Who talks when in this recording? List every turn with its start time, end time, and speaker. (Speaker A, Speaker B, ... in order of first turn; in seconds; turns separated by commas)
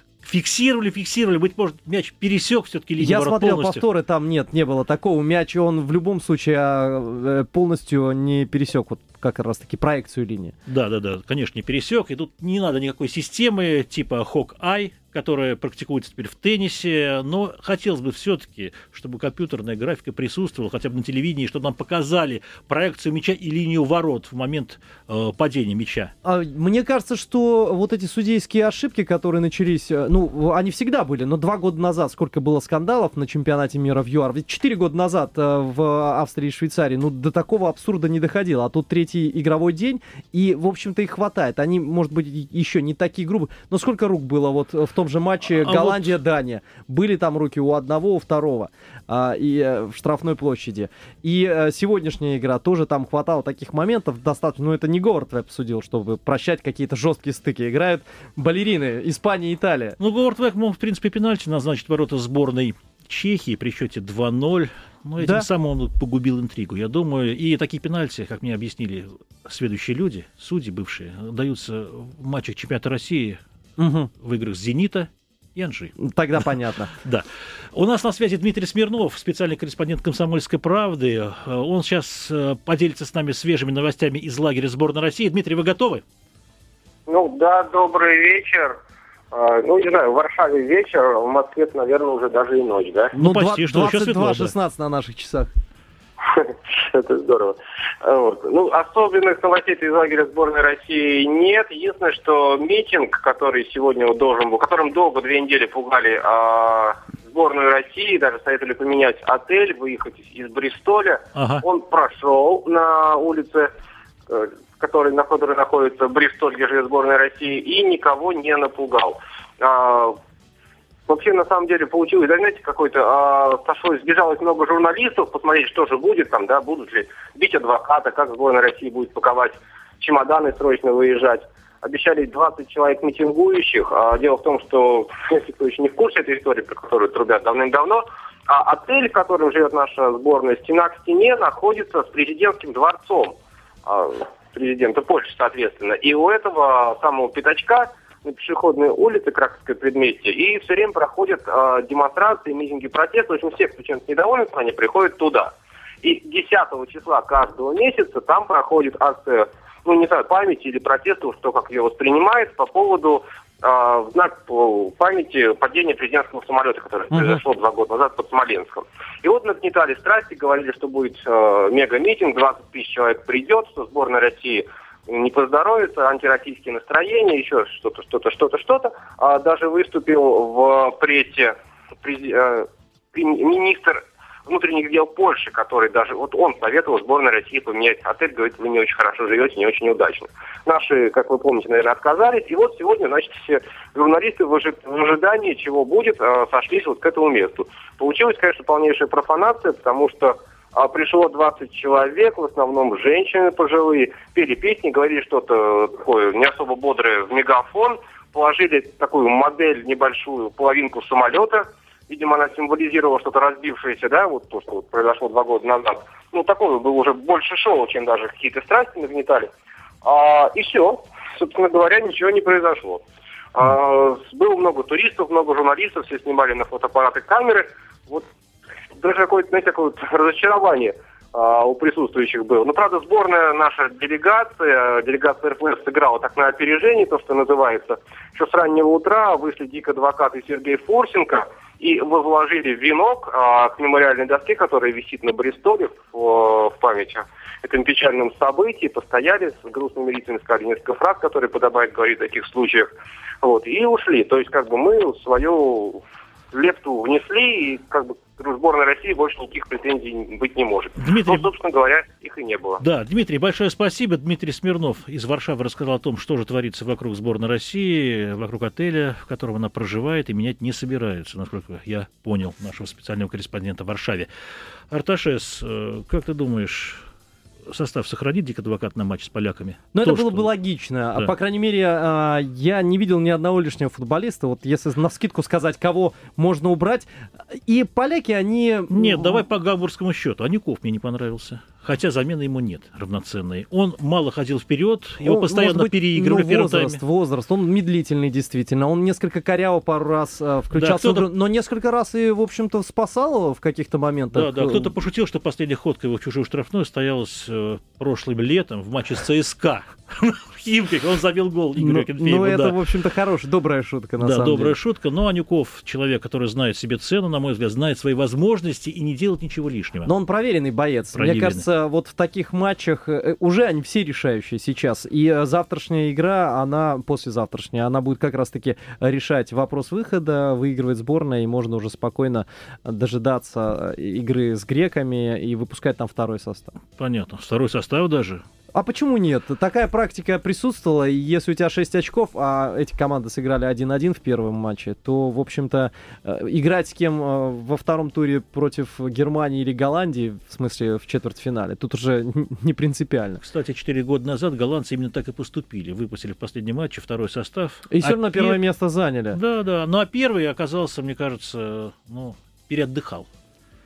Speaker A: 0.2-3.8, Speaker B: 3.0-10.6, Speaker A: 10.7-26.1, Speaker B: 26.2-60.0, Speaker A: 45.5-46.1, Speaker A: 60.0-73.4, Speaker B: 65.2-65.5, Speaker B: 73.8-74.1, Speaker A: 74.2-76.5, Speaker B: 76.0-76.9, Speaker A: 77.0-86.0, Speaker C: 87.1-88.8, Speaker C: 89.3-93.2, Speaker B: 93.1-95.5, Speaker A: 93.2-94.5, Speaker C: 96.2-113.7, Speaker A: 111.3-111.6, Speaker C: 114.3-120.2, Speaker C: 121.1-219.5, Speaker B: 167.1-167.4, Speaker C: 220.0-223.0, Speaker C: 223.6-228.3, Speaker C: 229.0-252.9, Speaker C: 253.4-256.0, Speaker C: 256.5-262.8, Speaker A: 261.0-261.5, Speaker A: 262.8-274.3, Speaker A: 274.9-277.1, Speaker A: 277.7-280.5, Speaker B: 279.9-289.4, Speaker A: 288.9-297.0, Speaker B: 295.2-304.9, Speaker A: 300.7-301.3, Speaker A: 304.3-312.8, Speaker B: 311.8-314.8, Speaker A: 314.2-320.1, Speaker B: 320.1-336.7, Speaker A: 321.1-321.6, Speaker A: 336.9-338.4, Speaker B: 338.7-353.4, Speaker A: 353.4-358.6, Speaker B: 357.9-359.4, Speaker A: 359.3-363.3